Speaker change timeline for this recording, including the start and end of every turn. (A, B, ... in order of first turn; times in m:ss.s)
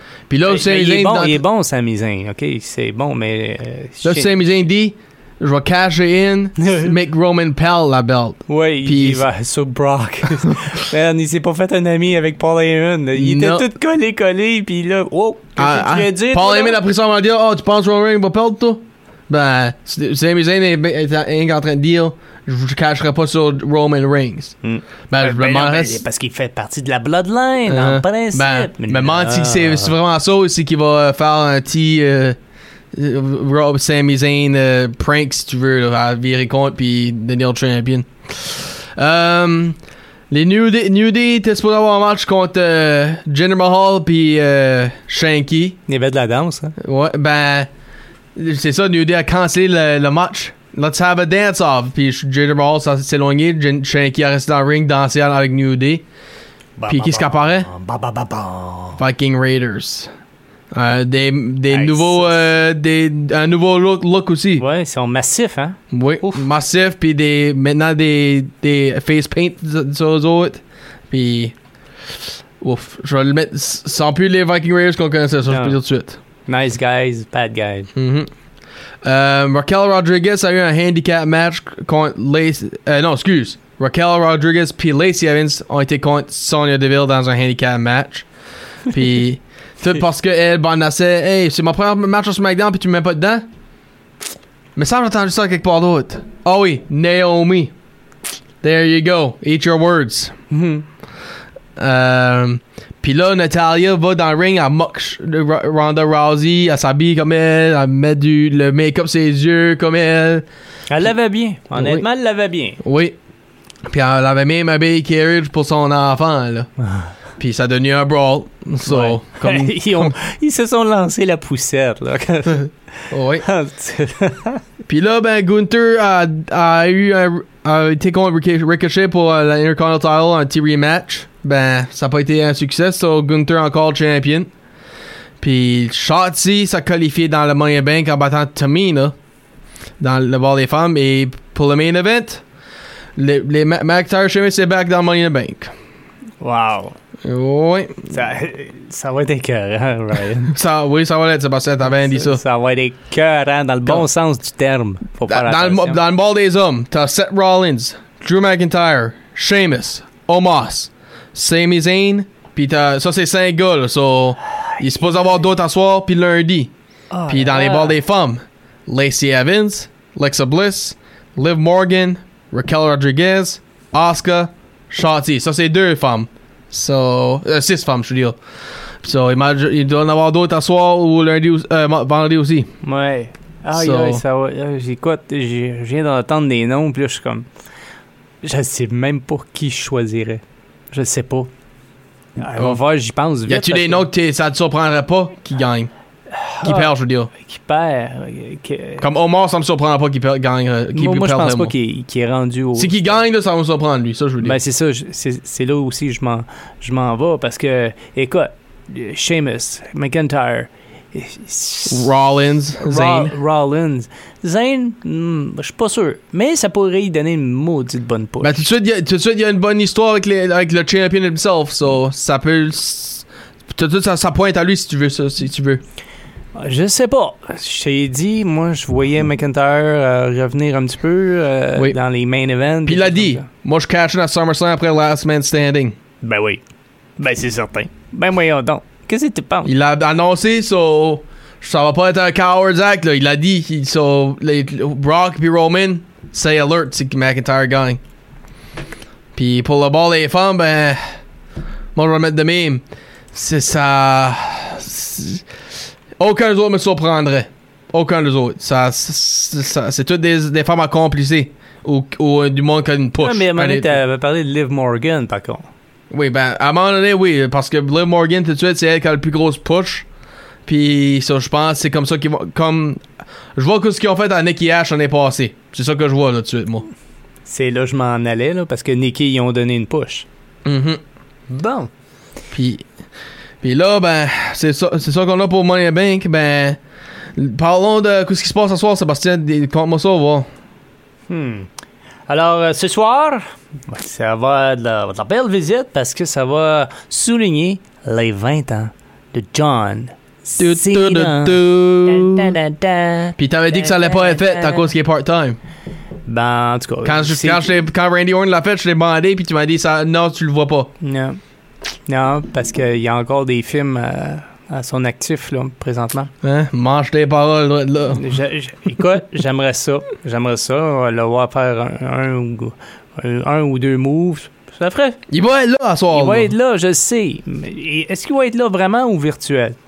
0:00.3-0:01.4 A
0:00.4-0:04.3 B
0:04.0-0:09.2 A
0:06.6-0:06.9 B
0:08.5-0:16.8 B
0:13.1-0:13.7 A
0:15.6-0:24.5 A
0:24.6-0:29.9 B
0:25.1-0:26.0 A
0:27.6-0:32.4 A
0:32.9-0:39.8 A
0:40.3-0:45.8 A
0:45.9-0:46.7 B
0:46.8-0:47.7 A
0:48.4-0:56.0 A
0:56.8-0:59.0 B
0:56.9-0:57.7 A
0:59.0-1:00.1 A
1:00.7-1:04.6 A
1:01.7-1:02.4 B
1:04.6-1:06.5 B
1:05.9-1:11.5 A
1:12.6-1:16.2 A
1:15.5-1:15.8 B
1:16.4-1:17.9 B
1:18.0-1:18.3 A
1:19.0-1:28.2 A
1:28.9-1:33.4 A
1:34.8-1:37.7 A
1:38.6-1:40.3 A
1:40.5-1:40.8 B
1:41.8-1:50.4 A
1:50.9-1:52.8 B
1:51.7-1:52.0 A
1:52.8-1:53.1 A
1:53.9-1:56.7 A
1:57.4-2:00.1 A
1:58.8-2:02.7 B
2:03.1-2:03.4 A
2:03.4-2:04.6 B
2:04.9-2:14.5 A
2:15.4-2:19.1 A
2:20.0-2:22.4 A
2:23.2-2:25.7 A
2:26.4-2:27.0 B
2:27.2-2:28.2 A
2:28.1-2:30.5 B
2:30.5-2:32.4 A
2:31.8-2:36.0 B
2:35.3-2:46.7 A
2:47.1-2:48.0 B
2:47.3-2:58.4 A
2:59.0-3:02.7 A
3:02.8-3:07.5 B
3:03.7-3:04.2 A
3:08.4-3:11.5 B
3:12.4-3:14.1 B
3:13.5-3:15.9 A
3:16.3-3:19.1 B
3:16.6-3:17.3 A
3:19.0-3:21.7 A
3:20.9-3:23.1 B
3:22.7-3:24.6 A
3:24.4-3:32.1 B
3:31.9-3:33.3 A
3:32.8-3:38.6 B
3:38.4-3:45.8 A
3:46.5-3:53.4 B
3:52.8-3:56.0 A
3:56.2-3:56.6 B
3:57.2-3:59.7 B
3:59.6-4:08.0 A
4:09.3-4:11.0 A
4:11.9-4:15.4 A
4:16.2-4:24.0 A
4:23.2-4:25.7 B
4:26.1-4:30.0 A
4:30.6-4:33.0 A
4:33.6-4:36.9 A
4:37.4-4:40.2 B
4:40.6-4:41.0 A
4:41.5-4:41.9 B
4:42.5-4:42.8 A
4:43.6-4:46.8 A
4:47.4-4:50.5 A
4:51.3-4:51.7 B
4:52.3-5:04.9 B
5:00.6-5:02.6 A
5:03.4-5:05.6 A
5:06.2-5:07.7 B
5:07.0-5:10.9 A
5:11.0-5:11.4 B
5:12.1-5:16.3 B
5:16.4-5:18.2 A
5:18.1-5:25.2 B
5:25.3-5:26.5 A
5:26.1-5:29.8 B